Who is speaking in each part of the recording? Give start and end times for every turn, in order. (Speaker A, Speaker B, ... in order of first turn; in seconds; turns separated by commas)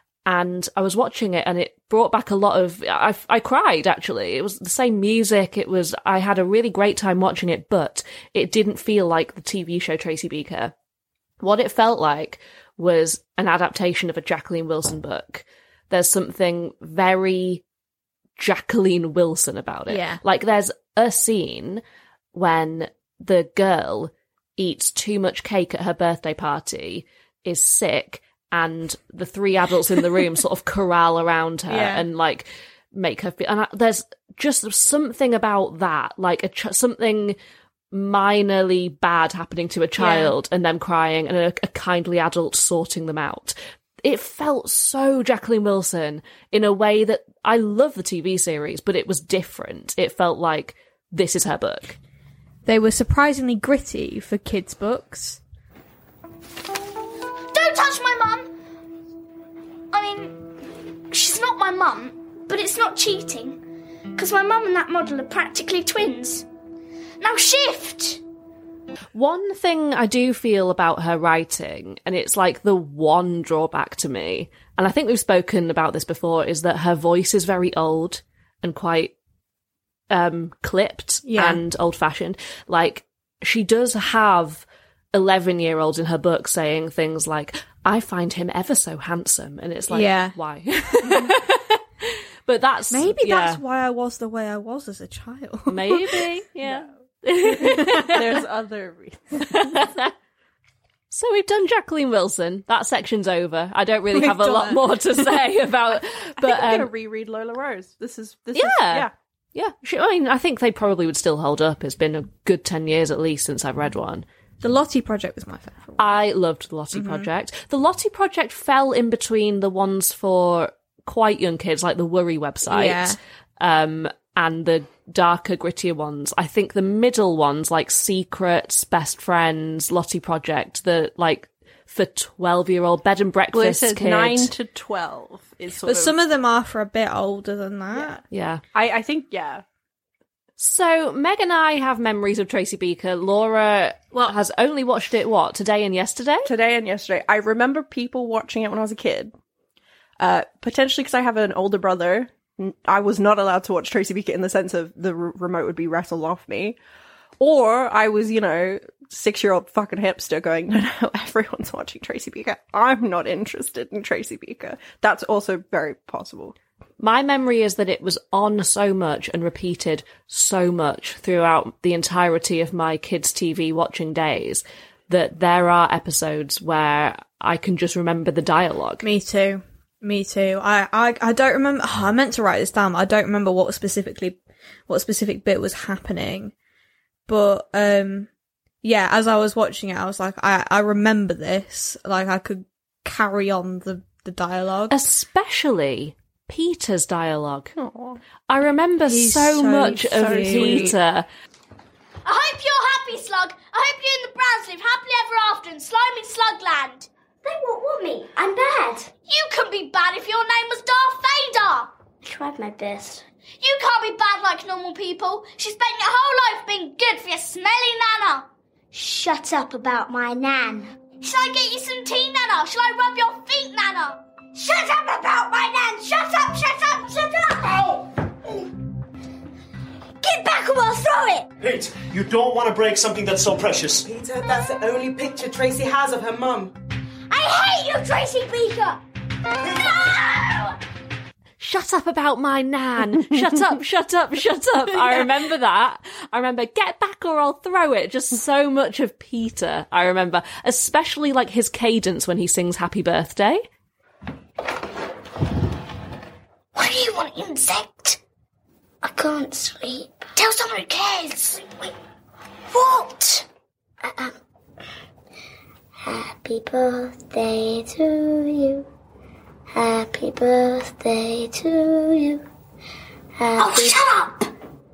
Speaker A: 0.3-10.7, Speaker A: 11.4-17.6, Speaker A: 18.4-21.8, Speaker B: 19.9-20.2, Speaker A: 22.3-37.4, Speaker B: 31.7-32.0, Speaker A: 37.9-52.0, Speaker B: 40.0-40.4, Speaker B: 52.6-55.4, Speaker C: 57.5-58.5, Speaker C: 59.9-60.4, Speaker C: 61.1-63.6, Speaker C: 64.2-66.5, Speaker C: 67.2-68.2, Speaker A: 69.1-79.1, Speaker A: 80.1-93.6, Speaker B: 81.3-81.6, Speaker B: 89.9-90.4, Speaker B: 91.0-91.3, Speaker B: 92.9-96.4, Speaker A: 95.7-98.2, Speaker B: 97.6-98.2, Speaker D: 97.9-99.8, Speaker A: 99.4-100.1, Speaker A: 101.1-106.9, Speaker B: 104.1-104.9, Speaker D: 106.4-109.1, Speaker A: 108.5-114.2, Speaker B: 114.6-116.1, Speaker A: 116.0-134.5, Speaker B: 116.9-117.3, Speaker B: 122.6-123.2, Speaker D: 133.5-136.2, Speaker B: 135.8-138.2, Speaker A: 138.3-138.6, Speaker D: 138.7-139.6, Speaker A: 140.6-146.5, Speaker D: 146.4-149.3, Speaker D: 150.2-156.8, Speaker D: 157.4-166.6, Speaker A: 167.0-179.1, Speaker B: 179.0-186.5, Speaker B: 187.3-188.3, Speaker B: 188.8-195.0, Speaker A: 194.9-197.7, Speaker D: 197.8-198.2, Speaker A: 198.5-201.3, Speaker B: 199.1-201.0, Speaker D: 199.9-201.0, Speaker C: 202.2-207.1, Speaker E: 207.4-209.1, Speaker C: 209.2-211.9, Speaker E: 212.2-213.2, Speaker C: 213.6-218.5, Speaker E: 218.9-220.9, Speaker C: 221.1-224.9, Speaker E: 224.6-226.2, Speaker C: 225.6-227.9, Speaker C: 230.2-231.5, Speaker E: 230.3-231.3, Speaker F: 231.6-234.1, Speaker G: 234.1-236.7, Speaker C: 237.3-239.0, Speaker C: 239.6-240.7, Speaker A: 241.6-253.7, Speaker C: 256.8-258.2, Speaker E: 259.0-260.3, Speaker C: 260.4-261.9, Speaker C: 262.7-263.4, Speaker E: 264.0-264.4, Speaker E: 266.0-268.9, Speaker E: 269.7-272.4, Speaker E: 273.4-274.1, Speaker C: 273.6-274.5